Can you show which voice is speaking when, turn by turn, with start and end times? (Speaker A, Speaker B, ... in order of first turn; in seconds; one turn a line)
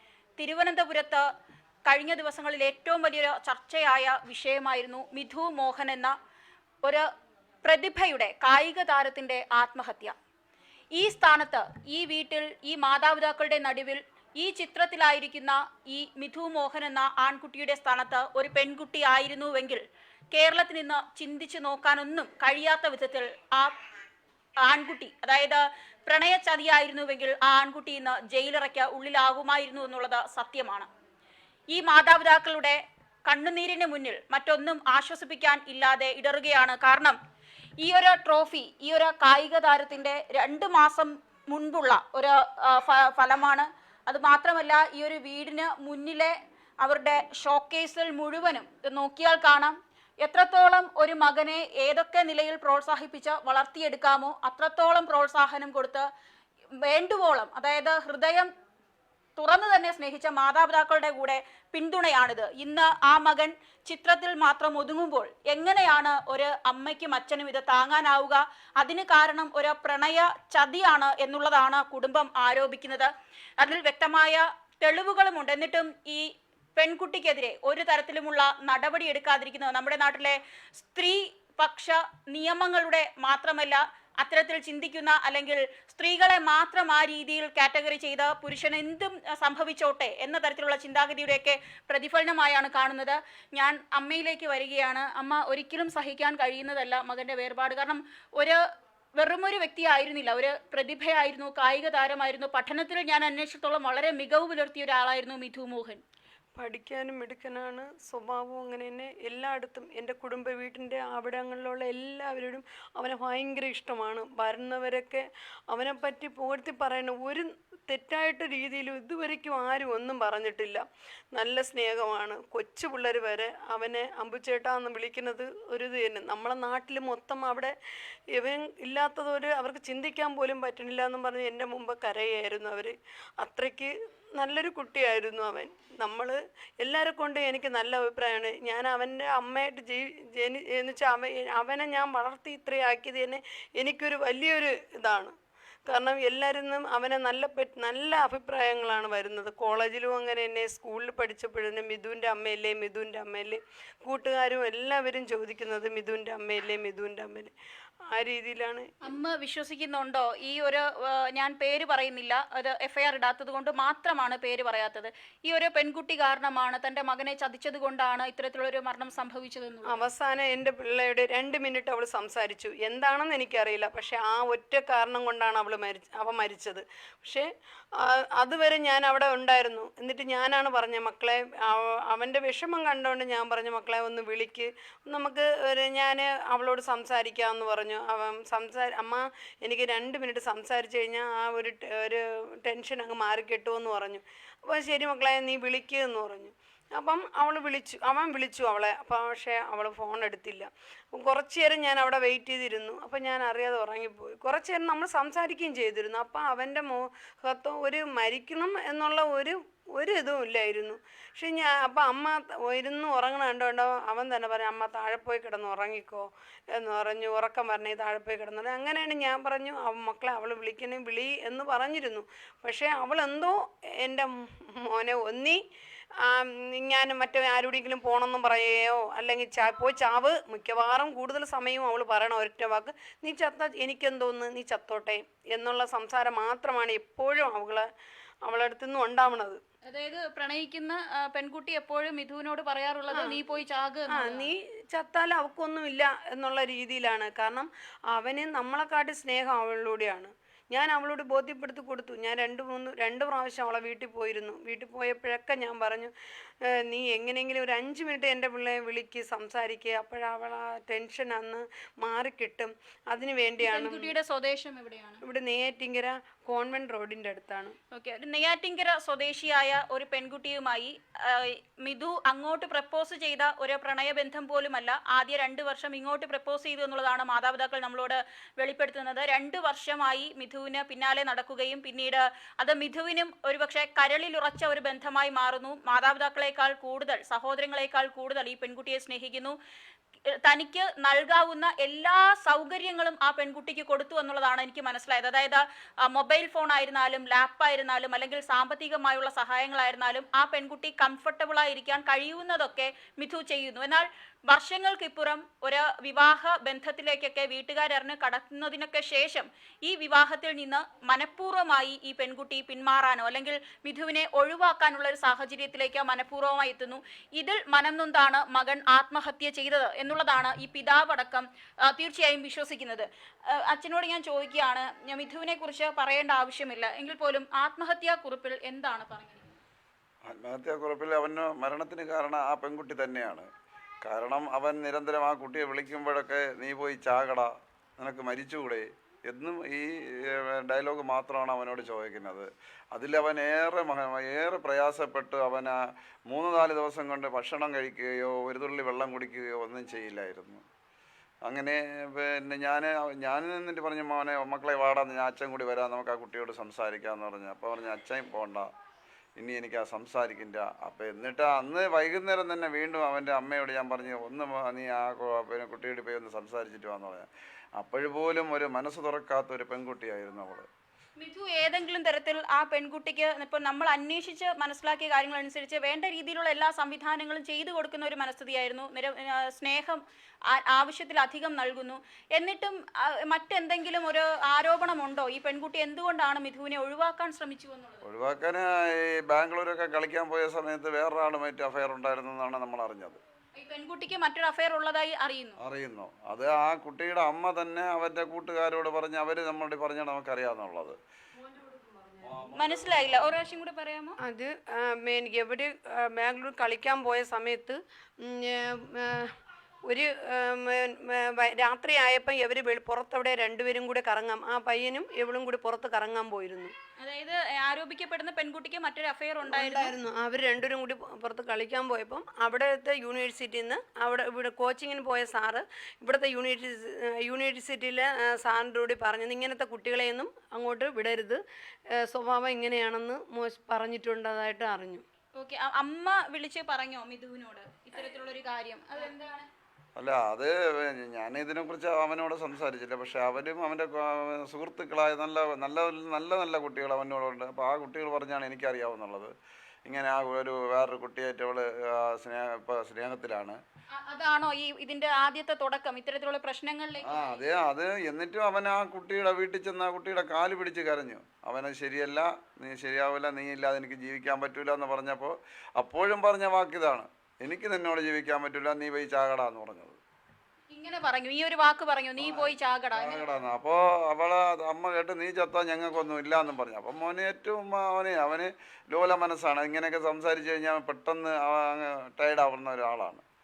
Speaker A: 0.4-1.2
Speaker A: 1.9-6.2
Speaker A: 7.6-10.2
Speaker A: 11.0-23.7
Speaker A: 24.6-30.9
Speaker A: 31.7-37.2
Speaker A: 37.8-56.1
Speaker A: 56.9-58.5
Speaker A: 59.4-76.2
Speaker A: 76.8-98.6
Speaker A: 99.2-106.0
Speaker B: 106.6-127.7
Speaker B: 128.3-145.3
Speaker B: 145.9-157.5
Speaker B: 158.1-158.9
Speaker A: 159.0-170.0
Speaker B: 169.9-177.5
Speaker B: 178.0-225.6
Speaker B: 226.2-237.9
Speaker B: 238.4-239.6
Speaker A: 239.9-244.5
Speaker B: 243.1-243.4
Speaker B: 244.1-256.1
Speaker B: 256.8-264.1
Speaker A: 263.6-265.2
Speaker B: 265.2-267.8
Speaker A: 267.9-289.6
Speaker A: 290.4-329.6
Speaker C: 330.3-333.5
Speaker C: 334.1-345.8
Speaker C: 346.3-350.6
Speaker C: 351.4-358.7
Speaker C: 359.4-370.7
Speaker A: 371.2-388.0
Speaker C: 388.0-393.2
Speaker A: 393.6-395.6
Speaker C: 395.6-401.0
Speaker C: 402.2-403.3
Speaker A: 402.6-404.2
Speaker B: 404.2-409.3
Speaker B: 409.9-416.7
Speaker A: 417.0-419.9
Speaker B: 419.4-431.4
Speaker B: 432.0-435.0
Speaker A: 435.4-439.5
Speaker C: 440.0-449.3
Speaker C: 449.9-453.6
Speaker A: 454.0-457.4
Speaker C: 457.1-470.0
Speaker A: 470.7-473.4
Speaker C: 472.2-483.2